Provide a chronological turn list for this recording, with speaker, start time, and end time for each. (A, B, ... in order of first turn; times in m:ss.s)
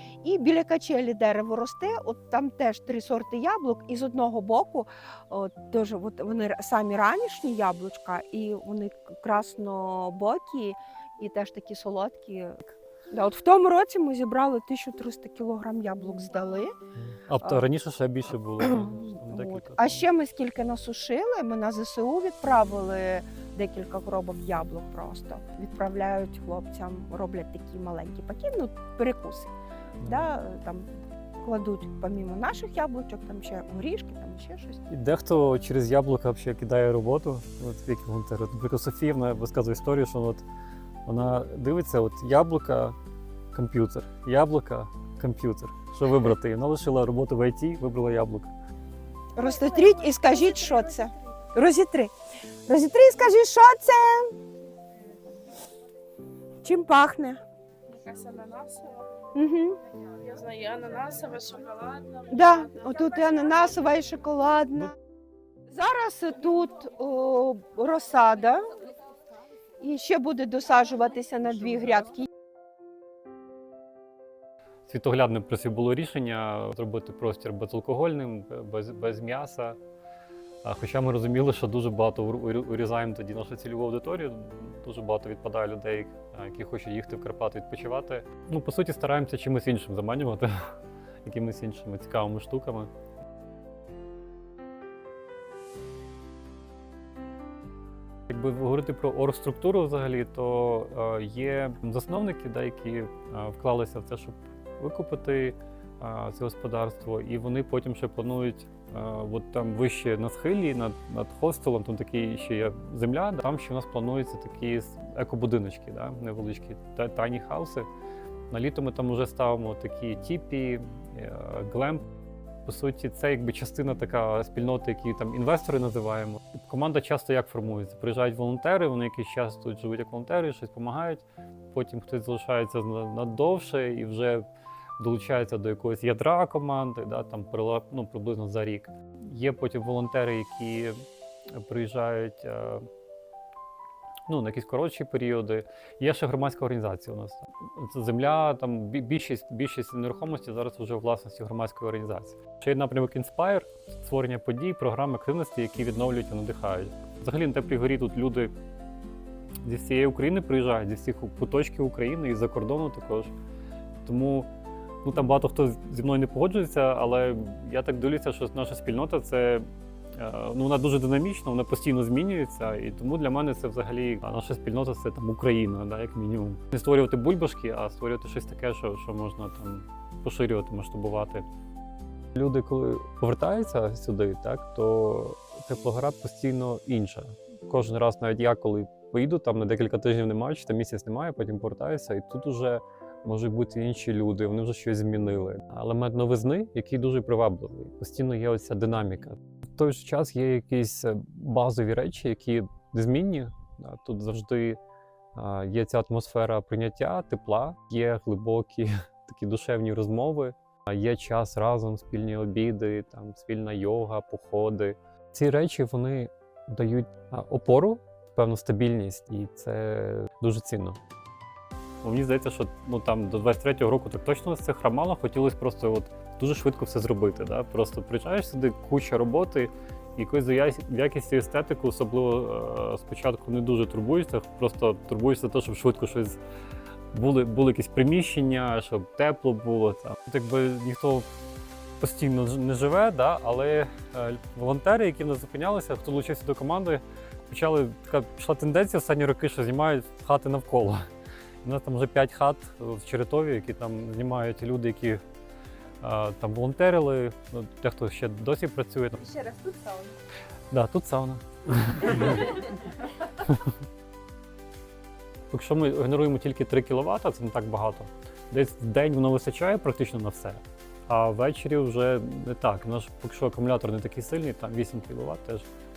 0:00.2-0:16.8 A
0:17.0-0:20.1 B
0:18.6-0:30.9 A
0:30.0-0:30.3 B
0:31.4-0:34.9 A
0:34.9-0:40.4 B
0:41.1-0:43.0 B
0:43.5-0:48.5 B
0:49.4-0:52.1 A
0:52.7-0:54.4 A
0:56.6-0:57.4 A
0:57.9-0:59.1 C
0:59.3-0:59.8 A
1:00.2-1:03.3 C
1:02.3-1:04.9 A
1:05.7-1:08.6 A
1:09.8-1:12.3 A
1:14.9-1:19.8 B
1:20.6-1:30.7 B
1:31.2-1:32.9 B
1:38.3-1:57.9 B
1:58.5-2:02.1 B
2:02.6-2:14.4 B
2:15.0-2:22.8 B
2:24.3-2:38.5 B
2:39.6-2:43.3 B
2:44.0-2:44.5 B
2:45.0-3:01.5 B
3:02.4-3:24.8 B
3:25.4-3:41.0 B
3:42.0-3:56.4 B
3:57.1-4:01.3 B
4:02.0-4:11.1 B
4:11.6-4:15.2 B
4:16.0-4:19.4 B
4:19.3-4:20.1 C
4:20.7-4:22.6 B
4:23.4-4:23.7 B
4:25.5-4:35.7 B